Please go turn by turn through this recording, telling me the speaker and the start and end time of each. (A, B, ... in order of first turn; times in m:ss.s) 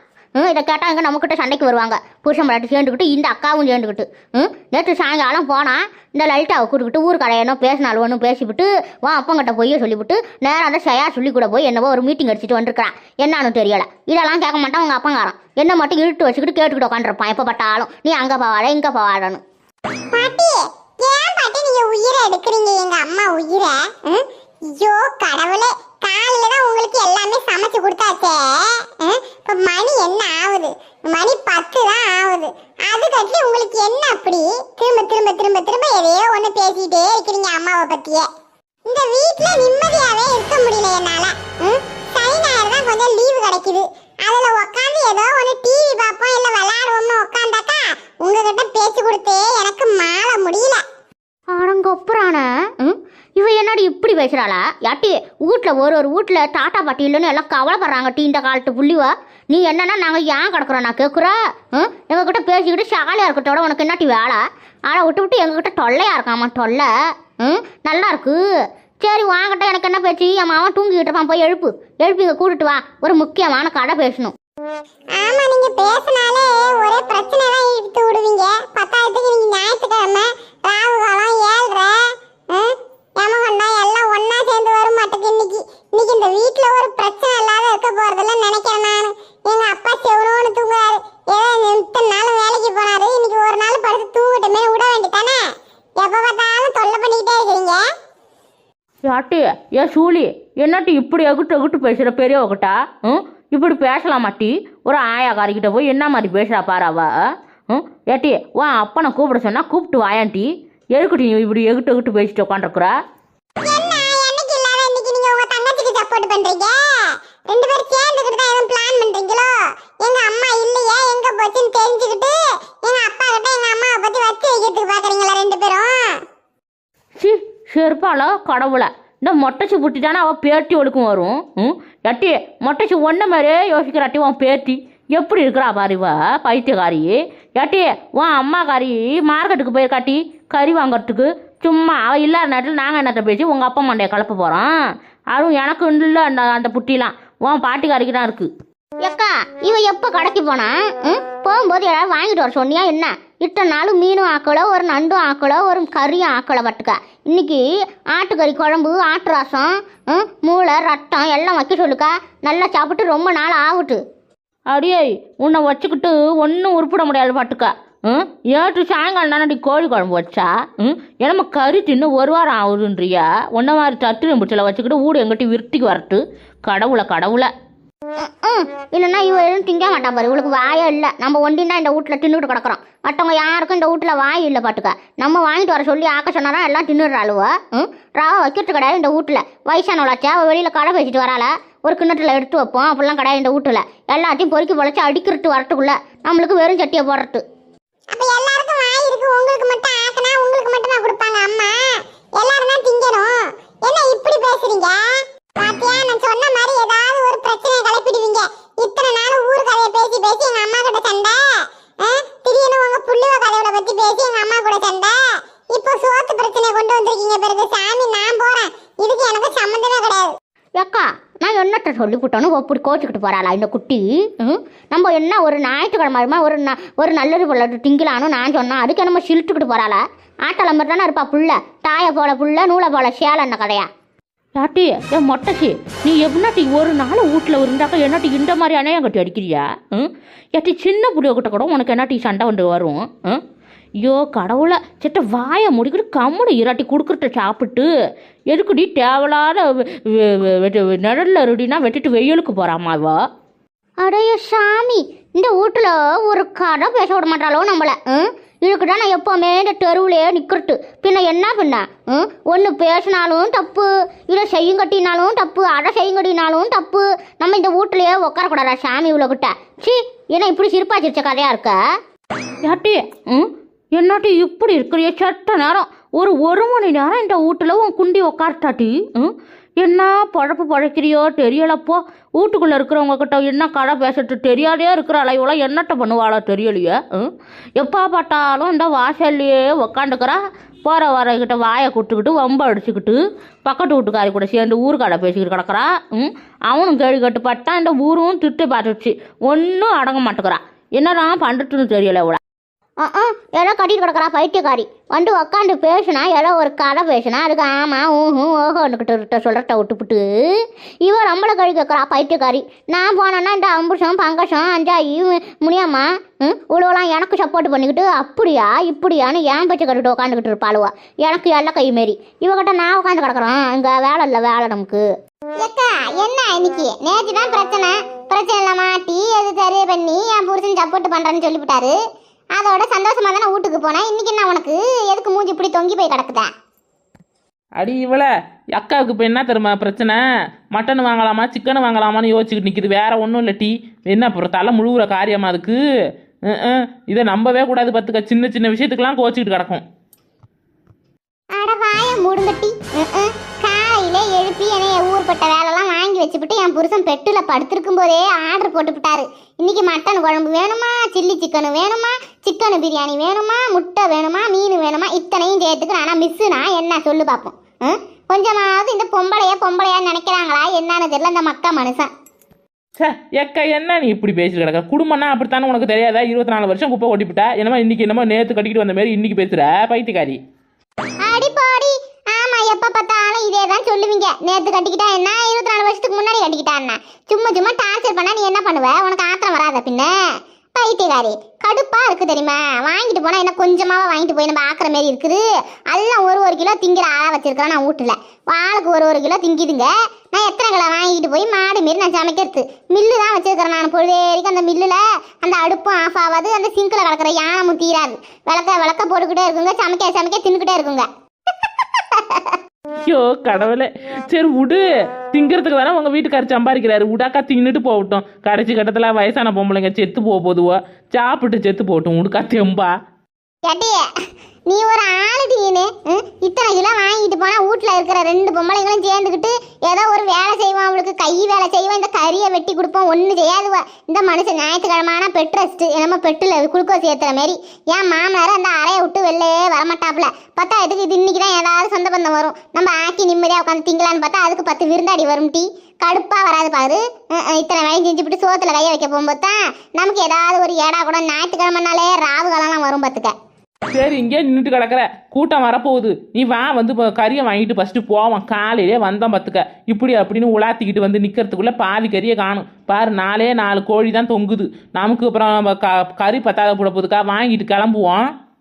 0:00.4-0:19.4 A
0:20.1-0:38.3 B
0:38.9-0:50.8 B
0:51.5-1:06.9 A
1:07.4-1:08.4 A
1:09.0-1:14.3 A
1:15.1-1:37.9 B
1:39.0-1:47.1 C
1:47.7-1:52.9 C
1:53.6-2:06.2 B
2:07.2-2:24.7 C
2:25.3-2:28.5 C
2:29.0-2:37.6 A
2:38.1-2:44.0 A
2:44.7-2:57.5 C
2:58.2-3:17.4 A
3:18.1-3:25.1 B
3:25.6-3:40.3 B
3:40.8-3:53.9 A
3:54.6-4:03.4 C
4:04.0-4:07.9 C
4:08.5-4:13.2 C
4:14.0-4:31.8 A
4:32.6-5:02.4 C
5:03.0-5:10.3 A
5:11.0-5:25.0 A
5:25.6-5:32.0 D
5:32.6-5:36.5 D
5:37.8-5:40.2 E
5:40.7-5:45.8 E
5:46.5-5:49.8 E
5:51.6-6:12.1 D
6:13.0-6:20.4 E
6:21.2-6:30.1 D
6:30.8-6:51.1 D
6:52.2-6:52.5 D
6:53.1-7:02.9 E
7:03.6-7:04.0 D
7:04.7-7:33.3 D
7:33.9-7:48.2 E